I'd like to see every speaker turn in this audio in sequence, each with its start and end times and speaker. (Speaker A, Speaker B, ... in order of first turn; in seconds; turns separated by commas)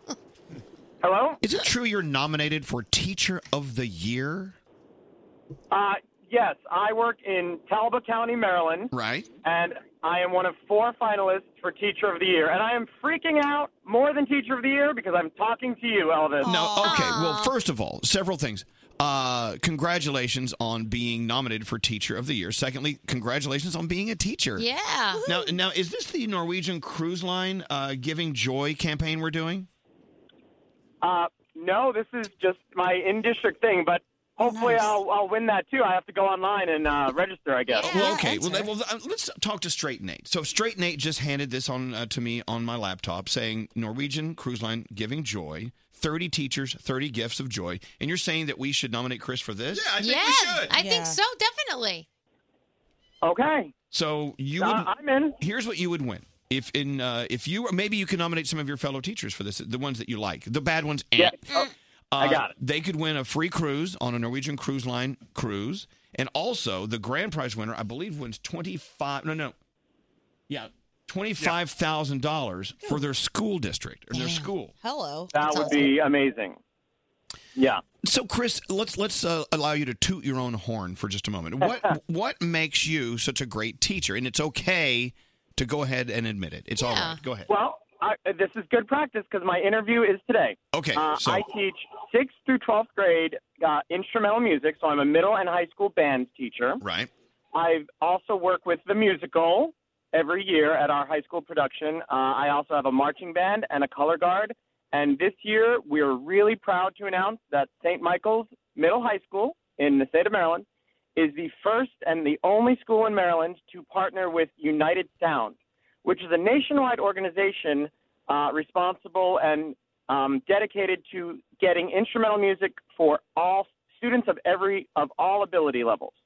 Speaker A: 1.0-1.4, Speaker B: 1.4-4.6, Speaker A: 5.7-8.9, Speaker B: 8.9-9.3, Speaker A: 9.4-16.5, Speaker C: 16.4-17.1, Speaker B: 16.4-24.6, Speaker D: 16.8-17.5, Speaker D: 24.6-25.2, Speaker C: 25.1-25.6, Speaker B: 25.3-29.7, Speaker A: 31.0-37.9, Speaker C: 34.4-35.0, Speaker C: 37.8-38.7, Speaker B: 37.9-50.7, Speaker D: 50.0-52.1, Speaker C: 50.7-51.2, Speaker A: 53.2-53.7, Speaker B: 53.9-61.6, Speaker A: 54.6-55.4, Speaker B: 62.1-69.5, Speaker A: 62.2-62.5, Speaker B: 70.5-74.7, Speaker D: 74.1-74.5, Speaker C: 74.8-75.7, Speaker A: 75.3-76.6, Speaker D: 75.4-75.9, Speaker A: 77.6-77.8, Speaker B: 78.0-87.5, Speaker D: 86.8-87.2, Speaker A: 87.5-96.8, Speaker B: 90.7-91.4, Speaker B: 96.8-97.1, Speaker A: 97.5-110.6, Speaker A: 111.2-126.2